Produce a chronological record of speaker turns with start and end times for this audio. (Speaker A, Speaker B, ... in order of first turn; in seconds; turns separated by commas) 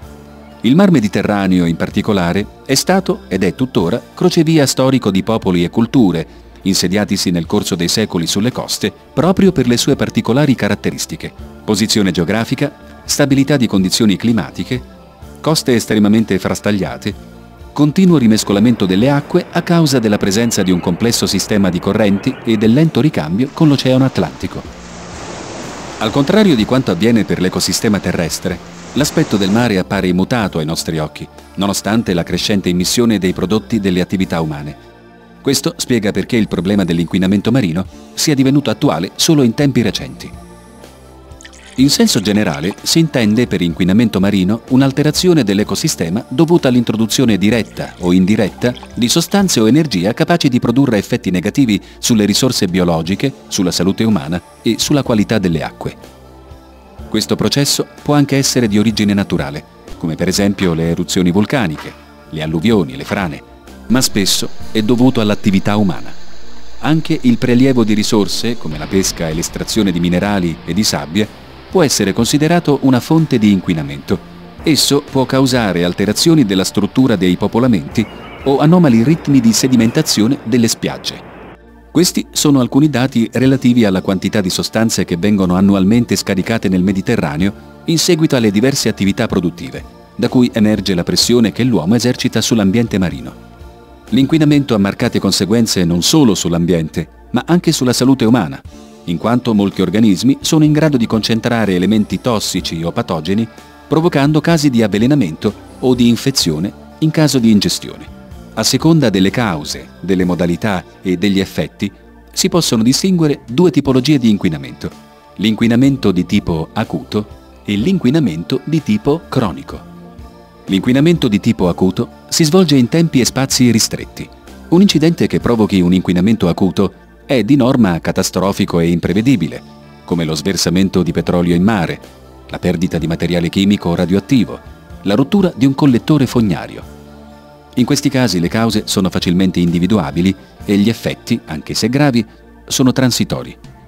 Speaker A: 0.6-14.9, Speaker A: 15.4-17.2, Speaker A: 17.7-24.7, Speaker A: 26.0-34.8, Speaker A: 35.4-40.3, Speaker A: 41.8-56.0, Speaker A: 57.1-66.2, Speaker A: 66.8-81.2, Speaker A: 81.9-93.4, Speaker A: 94.1-119.9, Speaker A: 120.7-136.9, Speaker A: 137.8-143.6